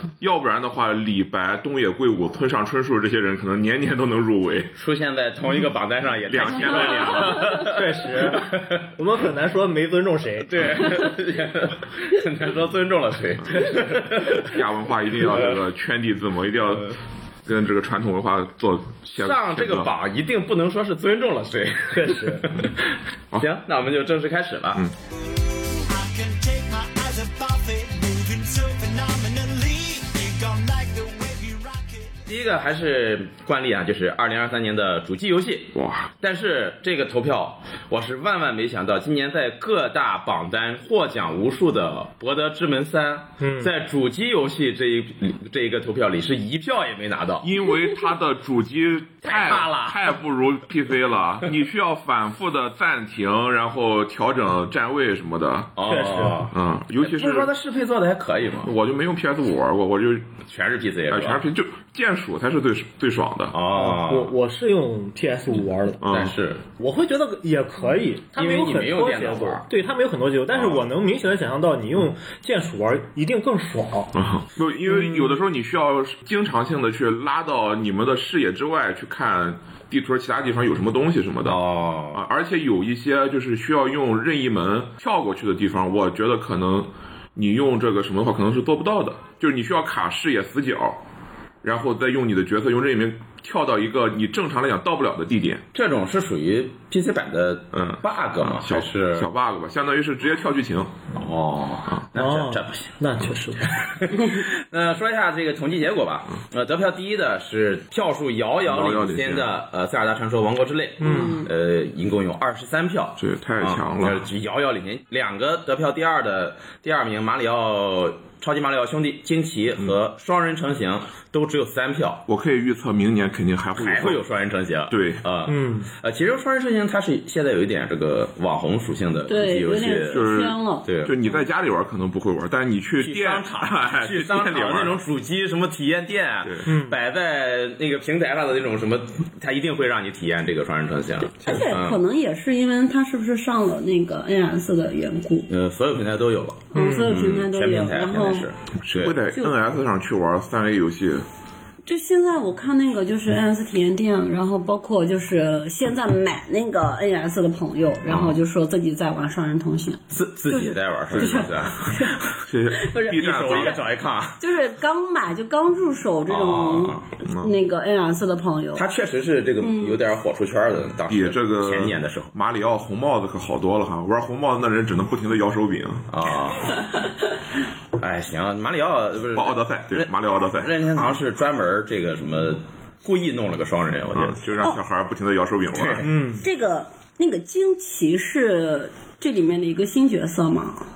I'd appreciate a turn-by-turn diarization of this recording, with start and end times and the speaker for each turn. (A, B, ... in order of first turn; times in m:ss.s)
0:00.2-0:04.7 A
0:04.8-0:08.9 B
0:06.2-0:07.5 A
0:07.4-0:10.8 C
0:10.4-0:14.6 B
0:13.4-0:19.9 A
0:15.2-0:15.6 B
0:19.1-0:24.8 B
0:21.9-0:22.5 C
0:25.7-0:32.2 D
0:32.2-0:47.5 B
0:35.7-0:36.1 A
0:43.4-0:43.7 C
0:47.4-0:55.8 A
0:49.2-0:50.1 B
0:55.8-0:58.7 B
0:55.8-0:56.4 C
0:56.5-0:57.5 A
0:58.6-1:00.3 A
1:00.5-1:01.4 B
1:01.1-1:03.6 A
1:03.5-1:04.4 B
1:03.7-1:06.0 C
1:06.0-1:06.3 A
1:06.0-1:06.7 B
1:06.8-1:14.1 C
1:08.3-1:09.7 B
1:10.5-1:10.9 B
1:14.1-1:21.6 A
1:14.9-1:15.3 C
1:21.4-1:22.2 B
1:22.1-1:31.0 A
1:31.6-1:35.6 A
1:35.7-1:39.3 B
1:37.8-1:40.9 A
1:41.1-1:42.9 B
1:42.1-1:43.8 C
1:43.6-2:02.2 B
1:48.6-1:49.5 A
1:51.0-1:51.4 C
1:51.0-1:51.5 E
1:53.2-1:54.3 A
2:02.3-2:04.2 A
2:03.8-2:10.3 B
2:04.9-2:05.2 A
2:05.5-2:05.9 C
2:09.3-2:10.8 E
2:10.1-2:15.0 A
2:10.8-2:11.1 B
2:13.0-2:22.0 B
2:16.7-2:17.0 C
2:21.4-2:25.5 E
2:25.5-2:29.2 B
2:26.7-2:28.5 E
2:26.7-2:27.1 C
2:28.8-2:31.2 A
2:31.8-2:42.2 E
2:38.0-2:38.3 B
2:40.1-2:42.2 B
2:41.1-2:41.5 A
2:42.4-2:43.8 A
2:42.7-2:43.8 E
2:43.1-2:44.4 B
2:44.4-2:48.8 E
2:46.3-2:47.1 B
2:47.2-2:47.5 A
2:48.7-2:52.3 B
2:49.6-2:50.0 E
2:51.1-2:56.1 A
2:56.1-2:56.8 B
2:58.0-3:04.4 B
2:59.3-3:01.1 A
3:04.1-3:06.1 A
3:05.7-3:06.1 B
3:06.0-3:06.4 C
3:06.4-3:10.8 E